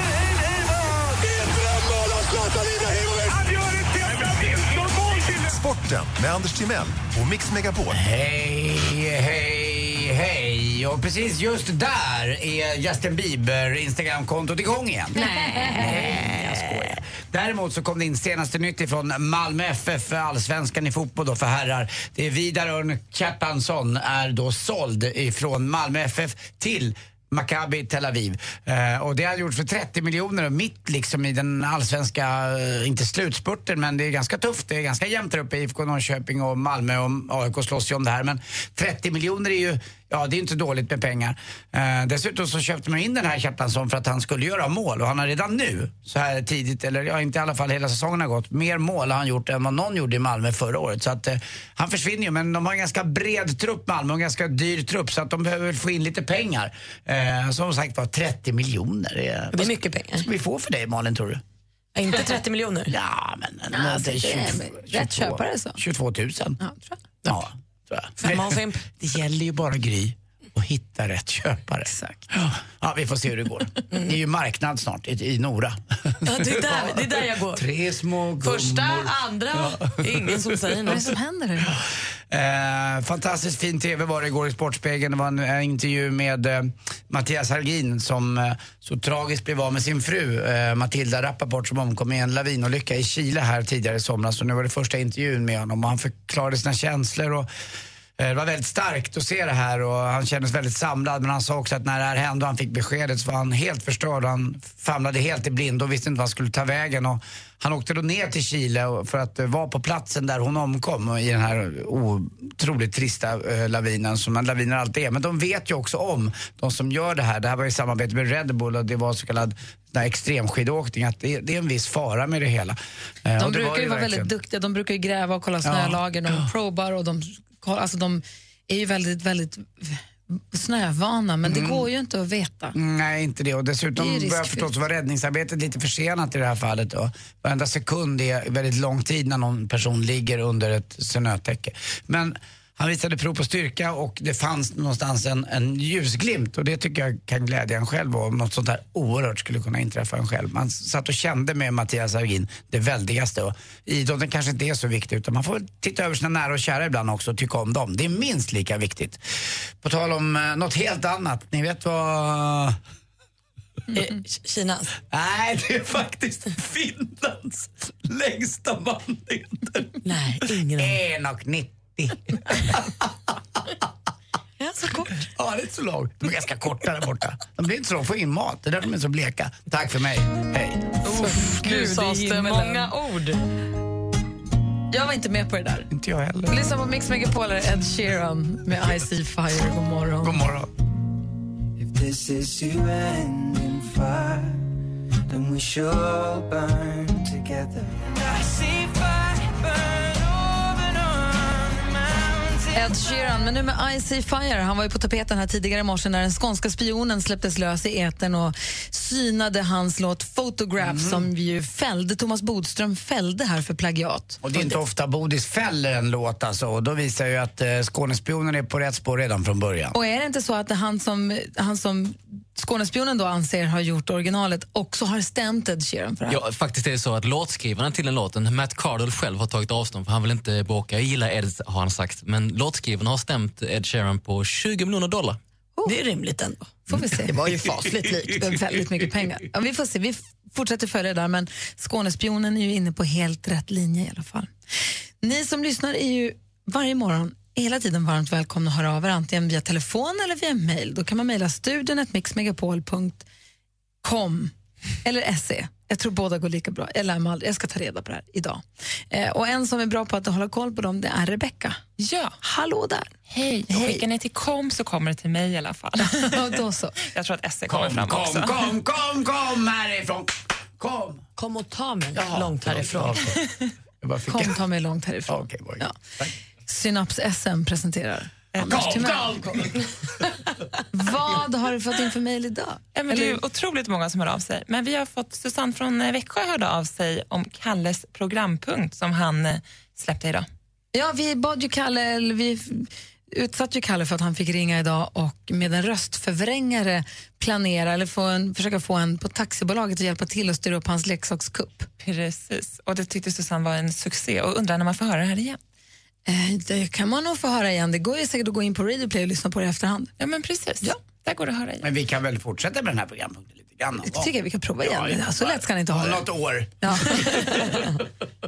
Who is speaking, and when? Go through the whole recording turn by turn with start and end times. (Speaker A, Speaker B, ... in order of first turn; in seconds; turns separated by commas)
Speaker A: 3.3-8.0, Speaker B: 7.9-61.4, Speaker C: 15.5-16.2, Speaker C: 59.5-60.3, Speaker C: 61.9-62.9, Speaker B: 62.9-66.6, Speaker D: 63.7-65.8, Speaker D: 66.6-67.0, Speaker B: 67.2-80.4, Speaker C: 68.2-68.8, Speaker D: 71.9-72.2, Speaker C: 76.2-77.6, Speaker C: 78.4-81.1, Speaker D: 80.9-81.7, Speaker B: 82.3-97.5, Speaker B: 98.2-124.3, Speaker D: 123.4-132.8, Speaker B: 125.6-126.5, Speaker B: 131.4-131.9, Speaker B: 132.7-159.2, Speaker D: 134.0-134.7, Speaker B: 159.8-162.8, Speaker C: 163.9-164.9, Speaker B: 165.1-169.9, Speaker C: 170.0-171.0, Speaker B: 170.8-173.3, Speaker C: 174.8-175.0, Speaker B: 175.2-180.9, Speaker C: 181.0-183.4, Speaker D: 181.1-182.9, Speaker D: 184.9-185.9, Speaker B: 185.9-186.6, Speaker D: 186.5-190.4, Speaker B: 190.2-190.7, Speaker E: 198.2-200.8, Speaker D: 202.7-214.7, Speaker B: 210.8-211.2, Speaker B: 214.4-219.9, Speaker D: 219.9-226.4, Speaker F: 226.3-235.4, Speaker C: 235.8-238.2, Speaker D: 236.8-244.5, Speaker D: 245.2-253.2, Speaker D: 254.0-254.5, Speaker D: 255.0-261.8, Speaker G: 262.0-262.3, Speaker D: 262.4-263.1, Speaker G: 263.3-266.4, Speaker D: 263.7-264.0, Speaker D: 266.0-266.9, Speaker G: 267.0-268.6, Speaker B: 267.7-271.2, Speaker C: 271.4-273.3, Speaker B: 272.1-273.4, Speaker B: 274.0-274.6, Speaker D: 274.3-275.9, Speaker B: 275.3-276.3, Speaker D: 276.7-279.6, Speaker G: 278.6-279.2, Speaker B: 278.6-279.7, Speaker D: 280.9-283.4, Speaker G: 282.9-290.5, Speaker D: 290.9-301.9, Speaker G: 302.0-305.6, Speaker D: 306.3-310.1, Speaker G: 310.2-311.9, Speaker B: 311.8-314.3, Speaker D: 314.0-316.2, Speaker B: 314.8-317.3, Speaker D: 316.8-317.6